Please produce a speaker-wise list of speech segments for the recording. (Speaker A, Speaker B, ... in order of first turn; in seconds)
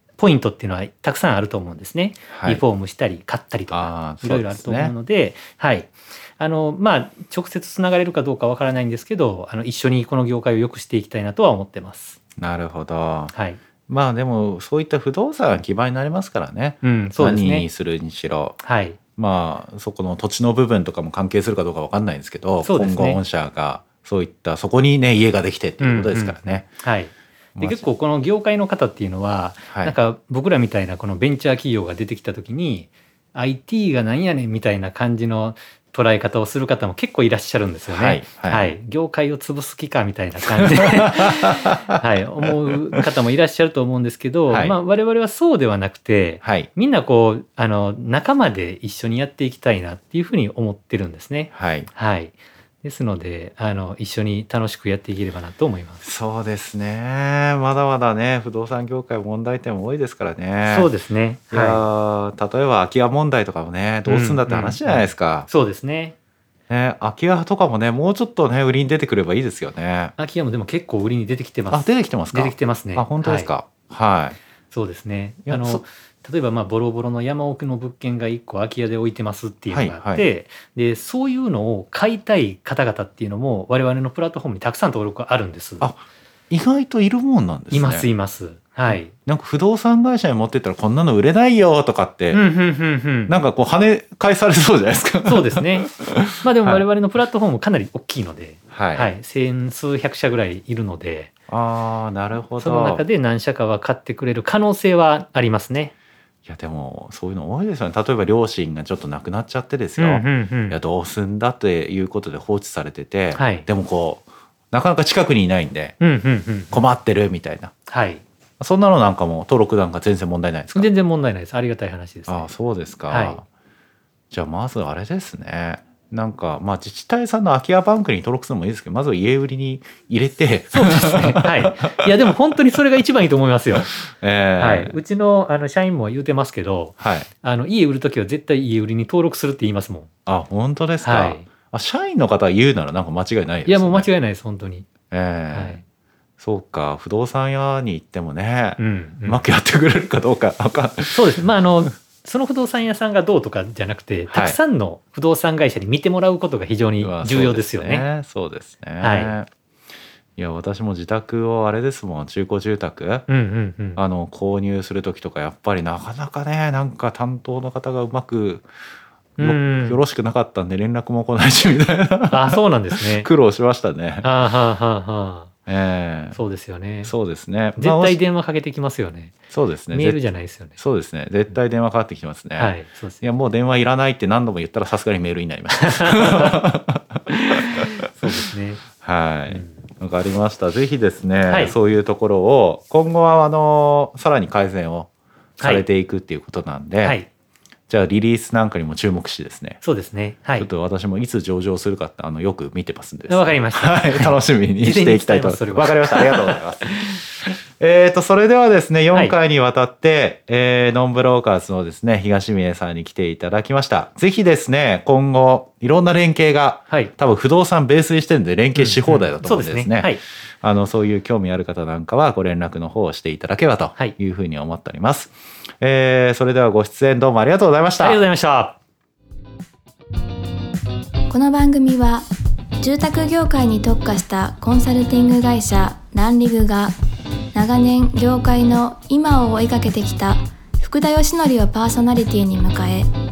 Speaker A: 0.2-12.2, 13.3-13.6, 16.8-17.7, 18.6-19.0, 22.6-23.2, 25.8-56.0, 60.6-61.8, 64.0-66.2, 70.2-73.5, 74.7-85.9, 87.7-89.1, 92.3-93.3, 95.2-101.3, 102.6-105.9, 110.0-110.8, 113.3-113.7, 116.0-116.8, 117.9-118.2, 120.8-122.5, 123.1-123.4, 130.7-133.9, 134.6-140.1, 141.0-141.4, 143.7-144.9, 145.5-145.8, 148.8-149.4, 151.1-158.1, 159.0-159.4, 163.3-164.0, 169.4-170.0, 172.3-173.3, 174.2-175.5, 176.3-177.1, 177.8-179.4, 179.9-180.8, 182.6-183.2, 185.8-186.6, 187.5-188.8, 189.5-189.8, 191.5-191.8, 195.6-195.8, 197.0-197.3, 199.8-200.7, 203.3-207.5, 209.1-209.4, 218.8-220.2, 228.0-228.8
Speaker B: 2.3-2.6, 3.7-4.9, 12.4-13.3, 13.9-18.6, 19.1-26.7, 27.6-27.9, 29.7-29.9, 37.9-38.8, 40.8-41.9, 44.5-44.8, 46.4-46.7, 51.5-51.9, 56.0-60.9, 61.5-65.5, 66.7-70.2, 71.7-74.4, 75.5-75.8, 79.7-80.3, 85.8-88.1, 88.9-92.4, 93.3-96.8, 98.7-99.1, 101.5-103.0, 106.5-115.9, 116.7-117.7, 118.6-120.9, 122.3-123.4, 124.3-132.1, 133.7-135.0, 137.0-137.3, 140.2-144.1, 145.1-145.8, 146.4-151.9, 154.3-154.6, 157.0-159.5, 160.4-163.3, 163.9-168.7, 169.4-174.3, 175.7-176.4, 177.0-178.2, 179.5-180.2, 180.8-187.2, 189.0-197.2, 197.9-199.8, 200.6-207.0, 207.8-228.2
Speaker C: 231.3-232.3, 232.8-236.9, 237.5-243.1